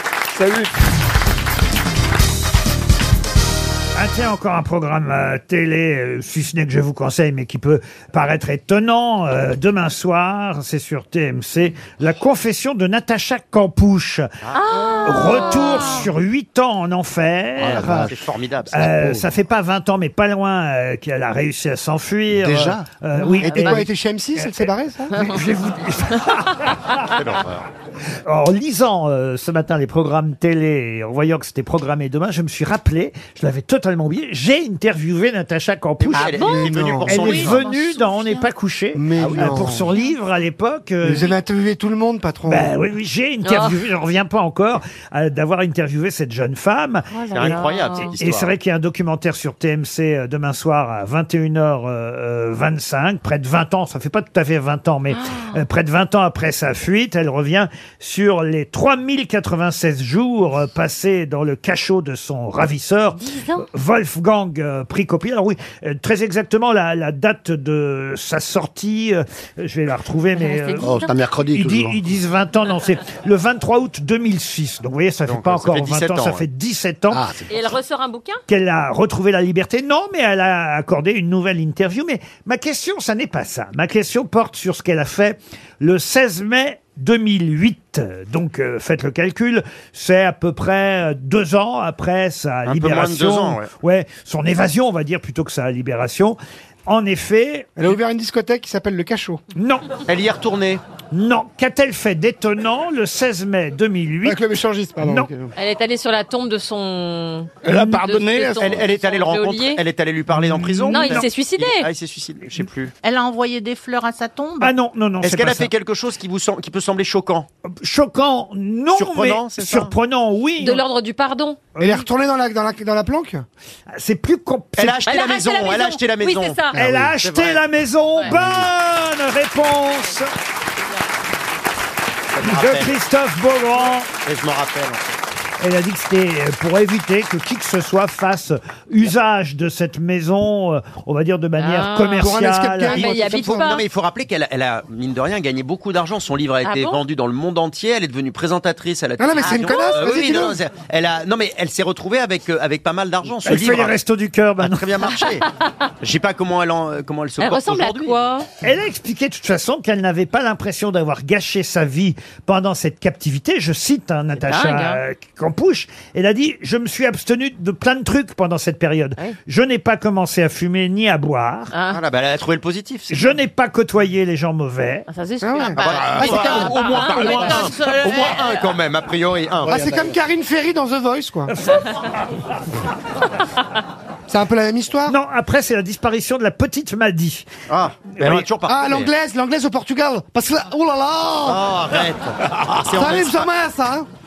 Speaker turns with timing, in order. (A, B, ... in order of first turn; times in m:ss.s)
0:00.3-0:00.7 A
0:04.0-0:14.3 B
0:14.5-0:16.1 C
0:15.0-0:18.1 B
0:17.6-0:18.2 D
0:17.8-0:19.0 E
0:18.7-0:27.1 B
0:19.0-0:19.2 D
0:22.4-0:22.8 D
0:23.2-0:23.8 C
0:23.4-0:25.3 F
0:27.1-0:27.6 E
0:28.2-0:36.5 B
0:36.0-0:37.6 E
0:36.3-0:36.7 C
0:36.4-0:37.2 F
0:37.0-0:41.3 B
0:37.4-0:38.4 G
0:38.9-0:39.9 F
0:41.0-0:42.7 F
0:42.4-0:47.6 B
0:43.4-0:43.8 C
0:47.1-0:48.2 C
0:47.3-0:48.5 E
0:48.2-1:11.0 B
0:55.1-0:55.6 C
1:03.2-1:03.6 C
1:10.3-1:11.2 C
1:10.8-1:12.0 D
1:11.5-1:17.2 B
1:15.3-1:16.4 E
1:17.1-1:17.6 D
1:17.5-1:18.4 C
1:18.5-1:37.8 B
1:32.6-1:33.7 E
1:37.8-1:39.4 F
1:39.5-1:39.9 B
1:40.1-1:40.8 E
1:41.1-1:44.4 B
1:44.2-1:45.5 F
1:45.0-1:45.3 B
1:45.6-1:49.8 C
1:47.6-1:48.8 A
1:48.6-1:52.9 E
1:50.4-1:51.2 B
1:50.8-1:51.9 C
1:53.0-1:54.7 G
1:54.6-1:55.7 B
1:55.2-1:57.5 E
1:57.7-2:00.8 B
1:58.9-1:59.9 E
2:00.6-2:01.6 C
2:01.8-2:02.0 B
2:01.8-2:03.4 F
2:03.9-2:05.0 B
2:04.8-2:07.6 E
2:05.0-2:06.8 C
2:06.8-2:10.3 B
2:12.4-2:13.0 E
2:12.4-2:14.1 B
2:14.2-2:15.2 E
2:15.6-2:23.1 B
2:21.6-2:22.4 C
2:22.2-2:23.8 F
2:22.9-2:23.8 C
2:22.9-2:34.0 E
2:26.6-2:27.0 C
2:29.2-2:30.6 F
2:29.4-2:30.0 C
2:33.4-2:34.8 B
2:34.6-2:35.4 E
2:36.0-2:38.2 E
2:37.4-2:38.5 C
2:38.6-2:51.7 B
2:44.4-2:45.0 C
2:51.7-2:52.0 C
2:51.9-2:53.1 E
2:53.1-2:55.1 B
2:55.1-2:58.6 C
2:55.4-2:56.8 F
2:55.7-2:59.9 E
2:55.8-2:57.4 A
2:59.6-3:01.5 F
3:04.3-3:05.1 F
3:05.1-3:07.5 B
3:07.7-3:09.1 E
3:08.2-3:08.4 B
3:08.7-3:11.7 F
3:11.4-3:13.5 E
3:12.9-3:14.1 F